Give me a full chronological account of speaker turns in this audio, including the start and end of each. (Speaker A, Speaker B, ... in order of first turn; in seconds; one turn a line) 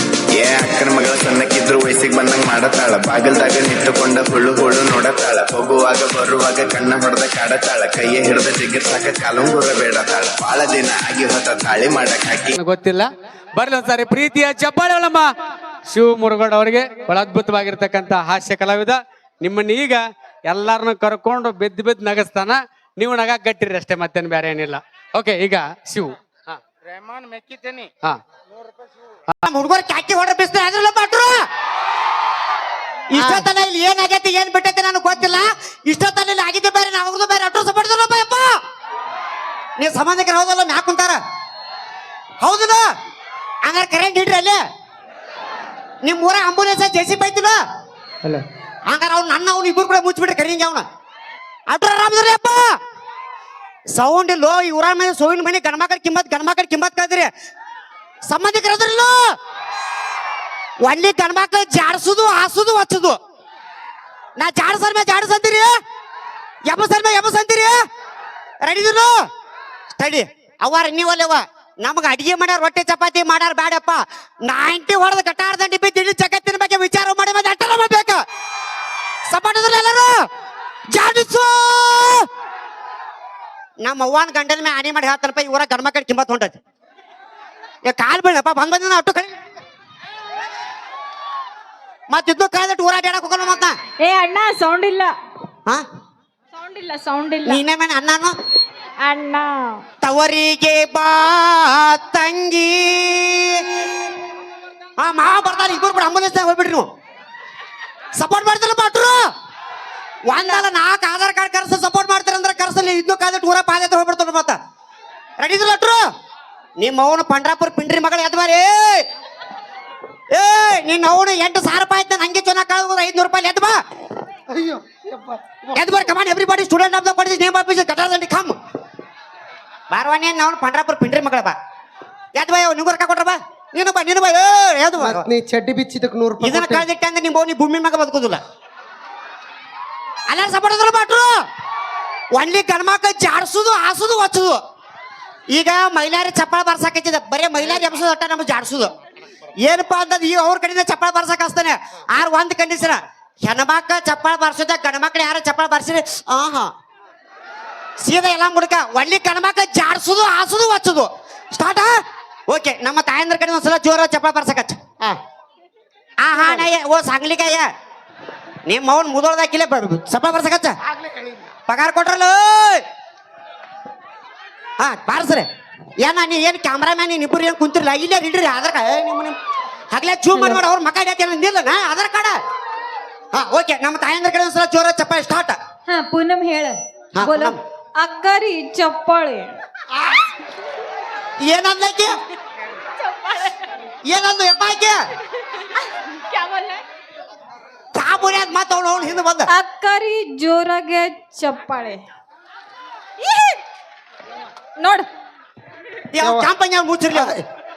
Speaker A: 0.3-12.5
Speaker B: 12.6-15.3
Speaker B: 15.9-26.5
Speaker C: 29.4-31.4
Speaker C: 33.1-38.5
Speaker D: 33.2-33.5
Speaker C: 39.8-41.2
Speaker C: 42.4-42.8
Speaker C: 43.6-44.6
Speaker C: 46.0-47.6
Speaker C: 48.9-50.8
Speaker C: 51.7-52.7
Speaker C: 54.0-57.3
Speaker C: 58.3-59.2
Speaker C: 60.8-63.2
Speaker C: 64.4-65.7
Speaker C: 66.7-67.8
Speaker C: 68.6-69.2
Speaker C: 70.0-78.2
Speaker C: 79.3-80.2
Speaker C: 80.9-82.2
Speaker C: 83.8-86.6
Speaker C: 87.9-89.3
Speaker C: 92.1-93.8
Speaker E: 94.0-95.1
Speaker E: 96.5-97.6
Speaker C: 97.5-98.3
Speaker E: 99.0-99.8
Speaker C: 100.0-103.7
Speaker C: 105.0-106.9
Speaker C: 108.2-109.2
Speaker C: 110.3-114.6
Speaker C: 115.4-116.0
Speaker C: 116.8-119.0
Speaker C: 120.3-123.8
Speaker D: 124.5-125.8
Speaker C: 125.8-128.6
Speaker C: 129.9-131.5
Speaker C: 132.4-135.2
Speaker D: 135.0-136.9
Speaker C: 136.4-138.4
Speaker C: 140.3-141.3
Speaker C: 142.3-144.6
Speaker C: 145.5-148.9
Speaker C: 149.6-156.7
Speaker C: 158.0-161.9
Speaker C: 162.5-164.8
Speaker C: 166.2-167.7
Speaker D: 166.3-166.7
Speaker C: 168.7-170.8
Speaker D: 170.8-171.5
Speaker C: 171.7-172.8
Speaker C: 174.8-175.5
Speaker C: 176.0-179.4
Speaker C: 179.9-182.4
Speaker C: 183.3-185.6
Speaker E: 185.9-189.5
Speaker C: 187.2-187.6
Speaker C: 191.4-192.2
Speaker E: 193.0-193.6
Speaker C: 194.1-195.0
Speaker E: 196.2-196.8
Speaker C: 197.9-199.5
Speaker E: 199.5-202.0
Speaker E: 203.2-203.6
Speaker E: 204.8-205.1
Speaker C: 206.1-207.4
Speaker D: 206.2-206.5
Speaker D: 207.1-207.4